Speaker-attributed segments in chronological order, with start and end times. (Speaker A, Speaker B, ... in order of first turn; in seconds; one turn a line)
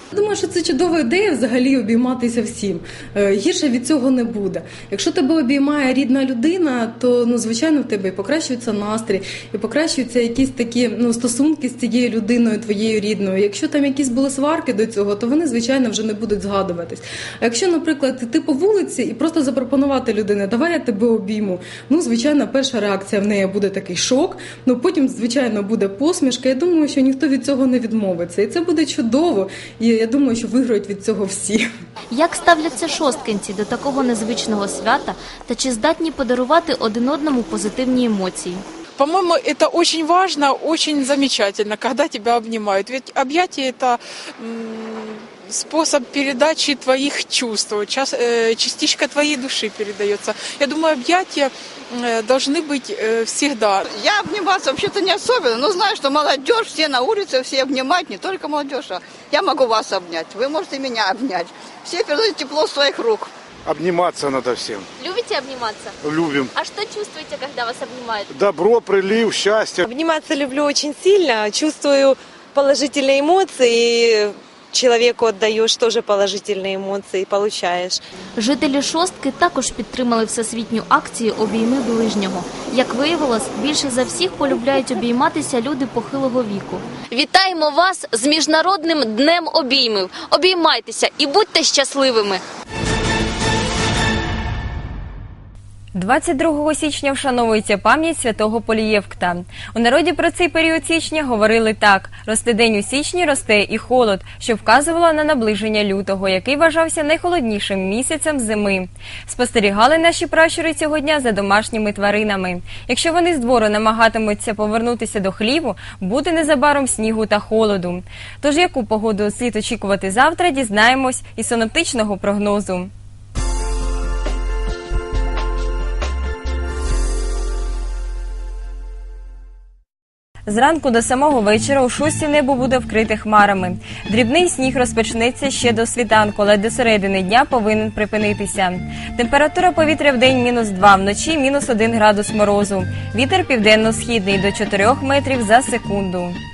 Speaker A: 0.1-31.6
Speaker B: 32.1-38.6
Speaker C: 39.0-53.9
Speaker D: 53.9-63.3
Speaker E: 63.7-64.8
Speaker E: 66.0-66.5
Speaker E: 68.3-69.9
Speaker F: 69.9-78.0
Speaker B: 78.3-86.9
Speaker B: 87.4-87.8
Speaker B: 90.1-92.0
Speaker G: 95.9-122.9
Speaker G: 130.5-146.4